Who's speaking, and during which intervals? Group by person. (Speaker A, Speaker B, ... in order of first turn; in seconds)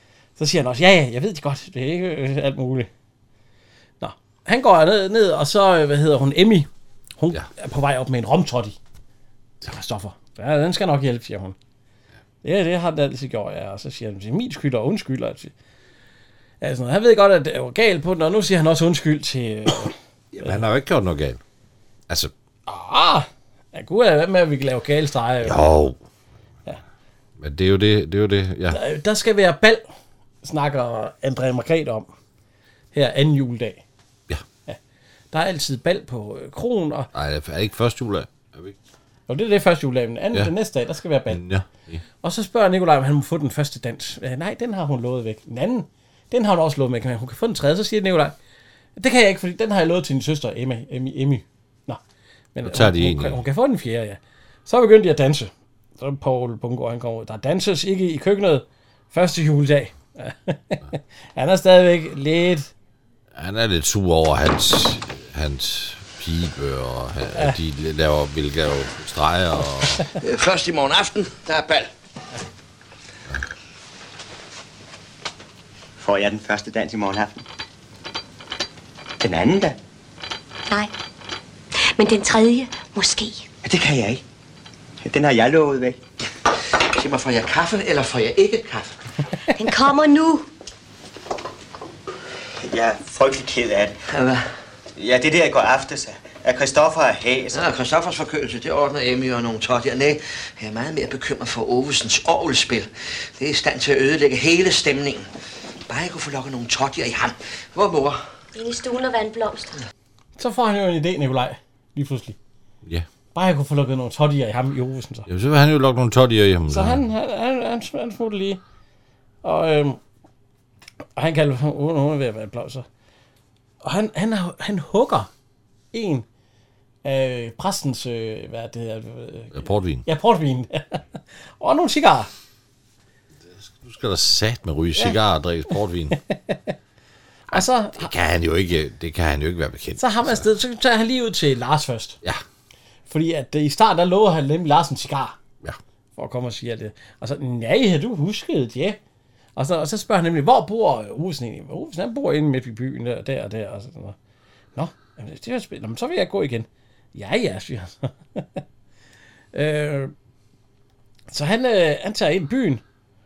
Speaker A: 0.4-2.9, 4.0-6.7, 7.2-8.8, 9.6-11.6, 12.4-15.5, 16.6-19.9, 22.7-25.6, 28.7-29.8, 30.4-32.1, 32.9-33.8, 35.3-37.1, 39.3-41.4, 42.2-48.4, 49.0-52.0, 52.5-62.7, 110.4-112.4, 113.3-115.3, 116.7-118.6, 119.4-120.0, 121.2-122.9, 123.8-125.3, 125.9-126.3, 127.0-131.0, 131.6-132.3, 137.5-138.1, 140.0-142.2, 143.1-145.4, 146.2-149.0, 149.6-154.2, 154.8-158.6, 159.5-160.1, 161.3-162.8
Speaker B: 20.3-21.4, 25.4-26.0, 27.4-28.8, 37.1-38.8, 41.3-42.0, 52.6-53.4, 63.3-70.0, 115.3-117.0, 129.5-130.1, 133.5-136.2, 137.5-140.5
Speaker C: 70.2-71.9, 86.9-89.0, 94.1-94.4, 97.5-105.3, 105.9-108.2
Speaker D: 76.0-77.4, 79.2-79.8, 83.6-84.2, 85.0-86.0, 92.6-94.0, 95.0-97.7
Speaker E: 82.2-82.9, 89.6-90.4, 108.6-109.7